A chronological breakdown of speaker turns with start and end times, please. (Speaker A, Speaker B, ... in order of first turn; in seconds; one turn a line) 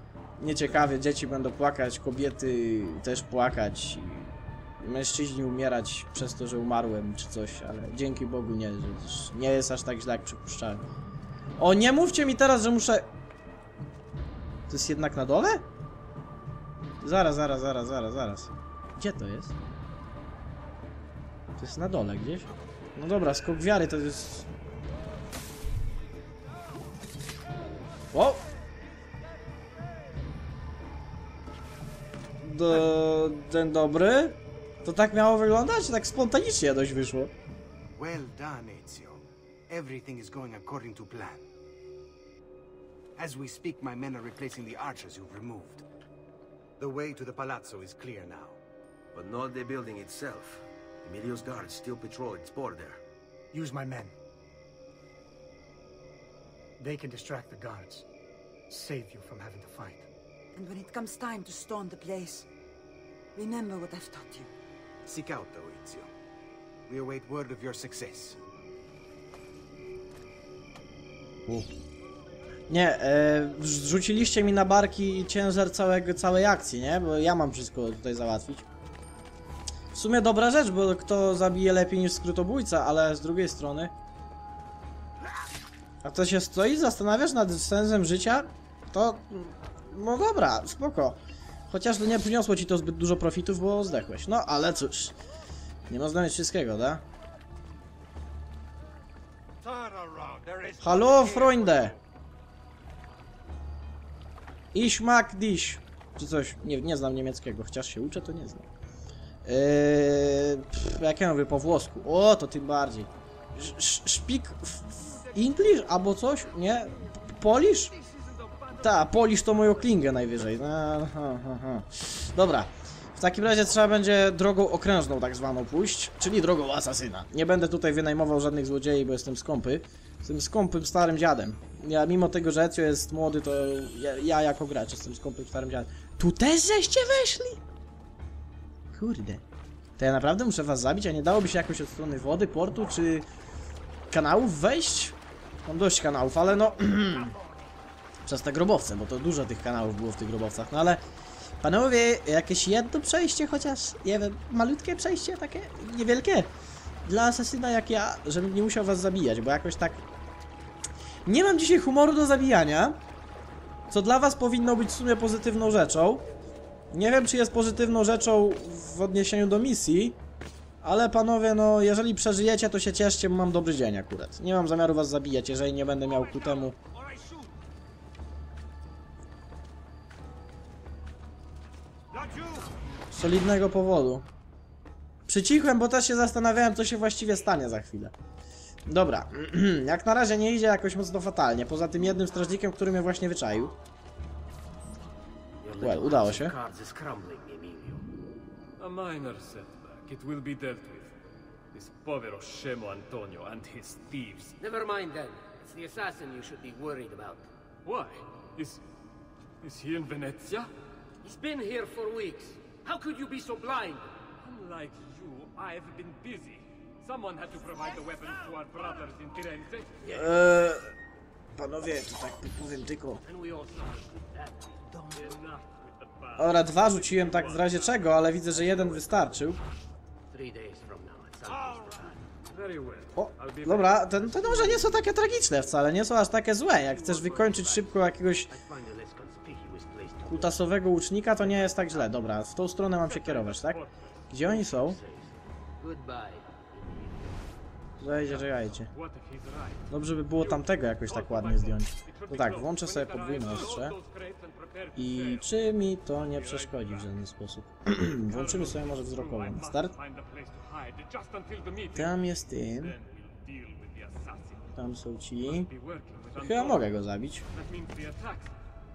Speaker A: 0.4-10.8
Speaker A: 11.6-13.1
Speaker A: 14.7-15.7
Speaker A: 17.0-19.5
Speaker A: 21.6-24.5
Speaker A: 28.1-28.4
Speaker A: 32.4-37.3
Speaker B: 38.0-41.5
Speaker B: 43.2-45.9
Speaker B: 46.8-48.6
Speaker C: 49.1-53.0
Speaker D: 53.5-54.1
Speaker D: 56.8-58.1
Speaker D: 58.7-60.1
Speaker E: 60.5-62.5
Speaker E: 63.4-64.5
Speaker B: 65.0-66.1
Speaker B: 66.9-68.4
Speaker A: 72.7-78.7
Speaker A: 79.9-83.9
Speaker A: 86.0-91.2
Speaker A: 91.7-95.1
Speaker A: 95.9-97.0
Speaker B: 99.6-102.0
Speaker A: 100.8-102.0
Speaker A: 104.7-108.7
Speaker A: 109.5-117.9
Speaker A: 118.8-137.6
Speaker A: 138.9-139.4
Speaker A: 140.0-143.3
Speaker A: 144.1-147.3
Speaker A: 148.3-151.0
Speaker A: 151.6-156.5
Speaker A: 157.1-160.0
Speaker A: 161.3-163.0
Speaker A: 163.9-166.3
Speaker A: 166.9-170.2
Speaker A: 170.8-176.8
Speaker A: 183.1-184.3
Speaker A: 185.3-188.1
Speaker A: 188.9-193.8
Speaker F: 195.6-198.1
Speaker A: 195.8-196.5
Speaker G: 198.8-201.2
Speaker G: 201.7-204.6
Speaker F: 204.6-207.5
Speaker G: 207.8-208.8
Speaker G: 209.6-210.7
Speaker F: 211.2-214.1
Speaker G: 214.4-220.0
Speaker F: 220.0-220.3
Speaker A: 220.1-220.9
Speaker A: 221.6-223.2
Speaker F: 223.2-225.4
Speaker G: 225.2-227.8
Speaker A: 226.4-229.6
Speaker F: 228.5-229.6
Speaker F: 230.3-232.2
Speaker G: 232.5-234.9
Speaker A: 233.2-238.5
Speaker F: 236.8-240.7
Speaker A: 240.3-245.0
Speaker F: 241.4-242.2
Speaker G: 243.1-244.2
Speaker F: 244.4-247.5
Speaker A: 248.0-248.9
Speaker G: 248.3-257.1
Speaker A: 249.9-254.0
Speaker A: 255.0-259.9
Speaker G: 258.3-262.2
Speaker A: 261.9-262.9
Speaker G: 262.8-264.7
Speaker A: 264.8-265.7
Speaker G: 265.4-266.9
Speaker A: 266.4-267.4
Speaker G: 267.5-268.6